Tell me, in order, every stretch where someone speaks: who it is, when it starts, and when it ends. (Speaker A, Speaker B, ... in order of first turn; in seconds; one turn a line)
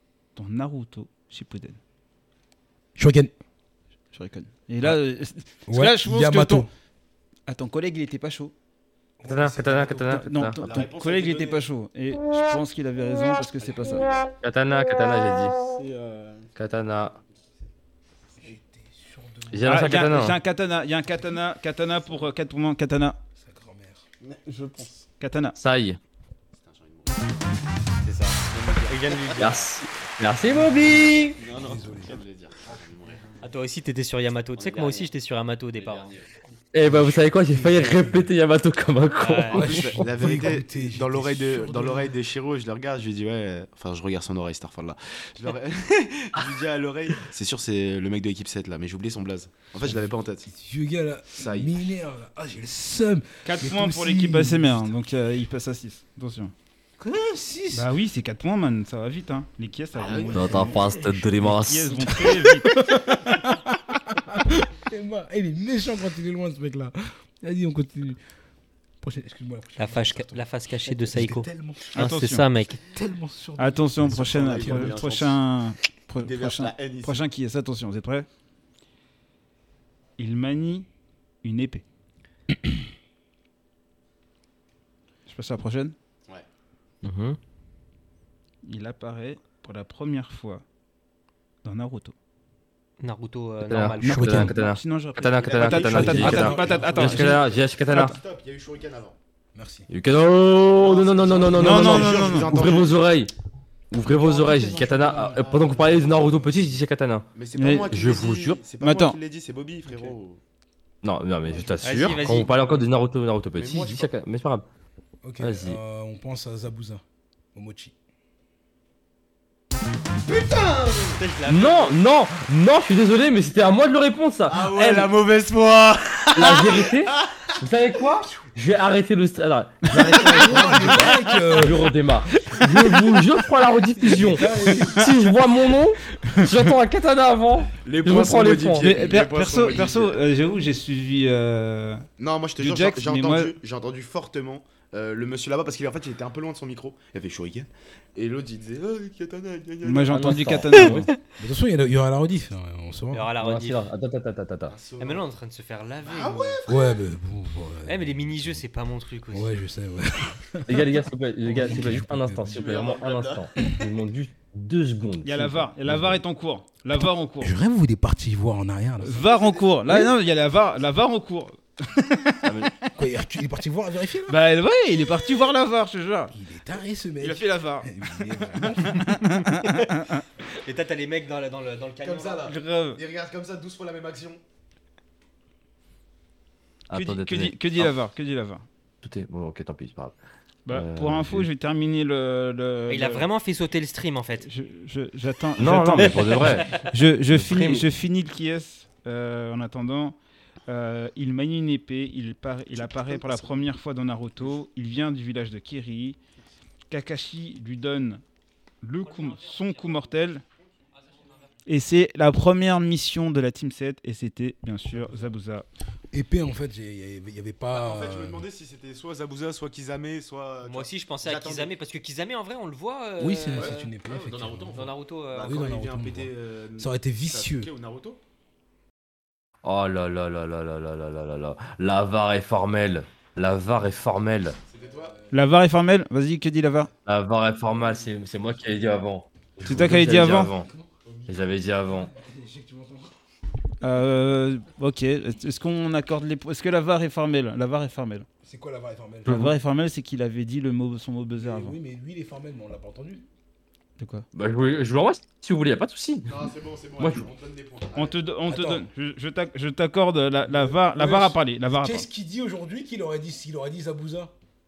Speaker A: 0.3-1.8
Speaker B: 2.9-3.3
Speaker A: 4.1-6.7
Speaker B: 5.7-6.7
Speaker A: 7.5-8.5
Speaker B: 9.2-10.2
Speaker C: 9.2-10.7
Speaker A: 10.1-14.1
Speaker D: 10.6-11.7
Speaker D: 13.6-14.2
Speaker C: 14.4-15.6
Speaker E: 15.6-16.5
Speaker C: 16.5-17.2
Speaker B: 18.4-20.1
Speaker C: 19.5-20.4
Speaker A: 19.6-23.2
Speaker B: 23.4-24.0
Speaker E: 24.2-25.1
Speaker A: 25.2-25.6
Speaker C: 25.6-26.0
Speaker D: 26.5-27.4
Speaker F: 28.0-29.8
Speaker D: 28.4-29.5
Speaker C: 29.4-31.4
Speaker E: 31.4-32.2
Speaker B: 31.5-32.1
Speaker D: 31.6-33.3
Speaker F: 33.4-36.1
Speaker D: 34.5-35.1
Speaker D: 35.8-36.2
Speaker C: 36.7-40.0
Speaker B: 36.8-38.3
Speaker F: 39.2-39.7
Speaker B: 39.5-42.1
Speaker D: 39.5-50.5
Speaker B: 49.8-54.9
Speaker D: 51.3-51.7
Speaker A: 53.4-56.5
Speaker B: 57.0-57.9
Speaker A: 57.7-60.8
Speaker D: 59.9-60.9
Speaker C: 60.3-62.4
Speaker B: 60.4-68.2
Speaker A: 61.4-62.7
Speaker B: 69.0-72.1
Speaker F: 69.8-72.8
Speaker A: 71.9-72.5
Speaker B: 72.8-75.0
Speaker A: 73.6-78.3
Speaker D: 74.1-75.4
Speaker D: 76.2-77.2
Speaker A: 80.2-80.9
Speaker A: 81.4-81.8
Speaker A: 85.3-86.0
Speaker C: 87.0-87.4
Speaker A: 88.6-90.6
Speaker A: 91.6-92.1
Speaker F: 93.0-94.5
Speaker C: 93.7-98.2
Speaker B: 94.0-94.5
Speaker A: 94.0-98.1
Speaker D: 95.4-99.2
Speaker B: 96.0-97.3
Speaker B: 99.5-99.9
Speaker C: 99.9-103.3
Speaker D: 100.1-103.1
Speaker A: 101.5-102.6
Speaker C: 103.9-108.6
Speaker D: 104.0-106.6
Speaker D: 107.3-110.4
Speaker A: 107.5-107.9
Speaker A: 108.8-109.2
Speaker C: 111.0-114.6
Speaker F: 111.8-112.8
Speaker D: 113.5-114.2
Speaker B: 115.2-117.0
Speaker C: 115.4-115.8
Speaker B: 117.5-117.9
Speaker D: 120.2-121.5
Speaker F: 121.2-122.0
Speaker C: 121.5-125.1
Speaker D: 124.5-127.5
Speaker C: 126.3-138.9
Speaker D: 128.1-128.4
Speaker D: 129.9-131.6
Speaker B: 130.1-131.9
Speaker B: 134.0-135.2
Speaker D: 137.8-140.2
Speaker A: 138.8-142.1
Speaker D: 142.2-150.5
Speaker A: 142.6-143.5
Speaker A: 149.8-151.1
Speaker C: 150.1-151.1
Speaker B: 151.4-153.3
Speaker F: 153.1-153.9
Speaker C: 153.4-154.8
Speaker D: 154.7-155.3
Speaker F: 154.9-156.6
Speaker D: 156.0-157.0
Speaker B: 156.7-158.6
Speaker F: 157.8-159.6
Speaker B: 159.3-162.8
Speaker C: 160.7-166.2
Speaker D: 162.5-163.7
Speaker A: 165.2-167.5
Speaker B: 167.4-169.3
Speaker A: 169.0-172.8
Speaker D: 169.2-169.6
Speaker C: 172.4-172.7
Speaker B: 172.9-174.4
Speaker A: 174.3-176.3
Speaker B: 176.3-179.2
Speaker A: 177.2-180.2
Speaker F: 180.6-182.5
Speaker D: 182.0-184.4
Speaker A: 182.4-183.0
Speaker C: 186.9-187.9
Speaker A: 186.9-188.6
Speaker C: 189.0-190.1
Speaker A: 190.7-193.3
Speaker C: 190.7-191.5
Speaker F: 192.9-194.5
Speaker A: 194.4-200.2
Speaker C: 195.6-197.8
Speaker F: 196.4-196.8
Speaker A: 200.7-206.2
Speaker D: 202.8-203.6
Speaker A: 206.9-208.2
Speaker A: 208.8-210.4
Speaker F: 209.0-210.1
Speaker A: 211.7-215.6
Speaker B: 216.1-218.5
Speaker D: 217.7-221.7
Speaker F: 220.6-223.9
Speaker B: 223.2-227.7
Speaker D: 223.5-228.2
Speaker F: 224.7-225.7
Speaker C: 229.6-234.6
Speaker D: 234.7-235.2
Speaker A: 235.3-236.9
Speaker C: 237.1-240.7
Speaker A: 239.6-240.5
Speaker B: 239.8-241.2
Speaker C: 241.3-242.1
Speaker B: 241.9-243.1
Speaker A: 243.8-248.3
Speaker B: 248.4-249.5
Speaker A: 249.2-251.8
Speaker B: 251.3-253.2
Speaker A: 254.0-254.2
Speaker C: 254.3-256.3
Speaker D: 256.3-258.2
Speaker C: 257.0-257.2
Speaker A: 257.9-262.1
Speaker B: 258.5-258.9
Speaker B: 260.4-264.3